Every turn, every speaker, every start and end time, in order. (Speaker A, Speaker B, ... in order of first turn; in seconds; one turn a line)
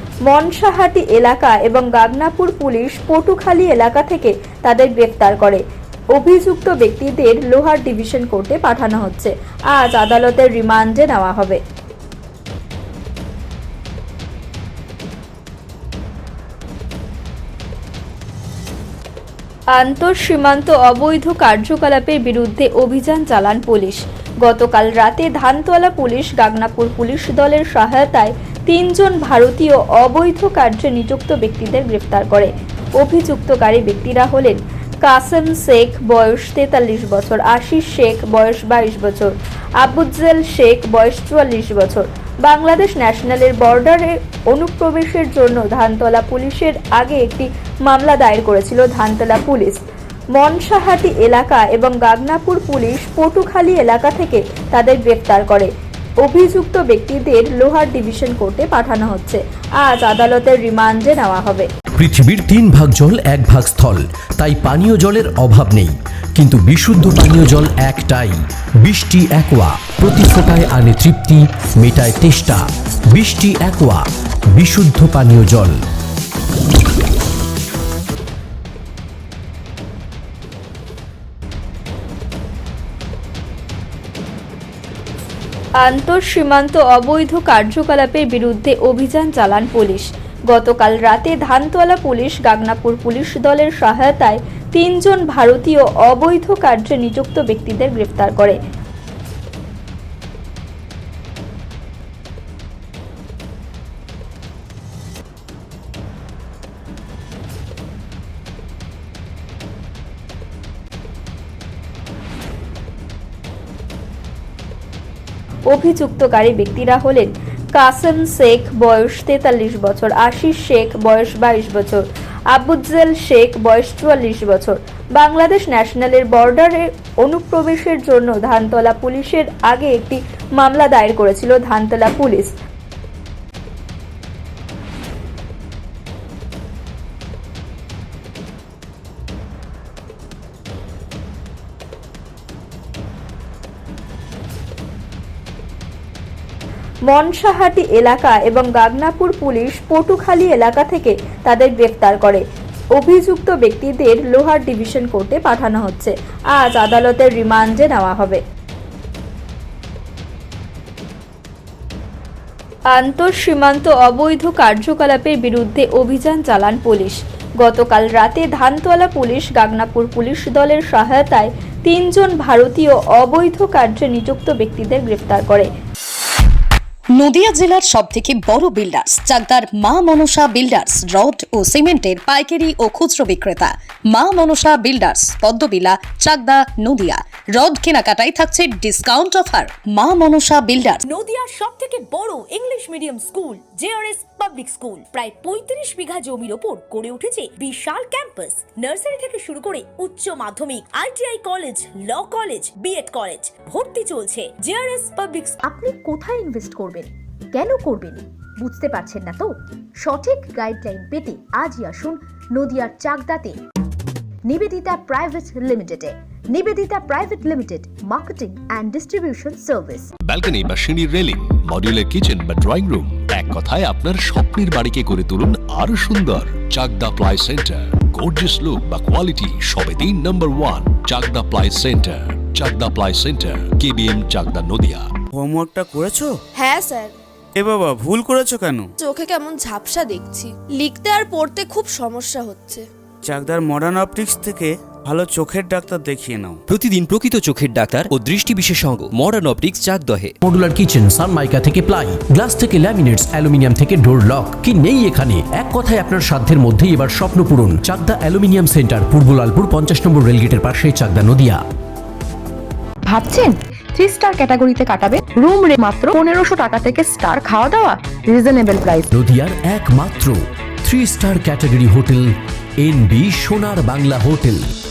Speaker A: 0.2-5.6
Speaker A: 6.2-11.6
Speaker A: 19.7-49.8
Speaker A: 50.4-55.7
Speaker A: 56.2-61.7
Speaker B: 62.0-75.8
Speaker A: 85.8-98.6
Speaker A: 115.7-132.5
Speaker A: 147.1-152.4
Speaker A: 153.0-158.4
Speaker A: 162.9-175.7
Speaker C: 177.2-191.0
Speaker D: 191.0-205.6
Speaker E: 205.6-213.6
Speaker E: 214.4-220.1
Speaker F: 220.2-235.1
Speaker G: 235.3-236.3
Speaker H: 236.5-237.1
Speaker G: 237.6-238.9
Speaker H: 239.0-242.9
Speaker G: 243.2-246.6
Speaker I: 246.7-250.3
Speaker B: 250.4-261.6
Speaker J: 263.1-269.1
Speaker B: 269.1-274.6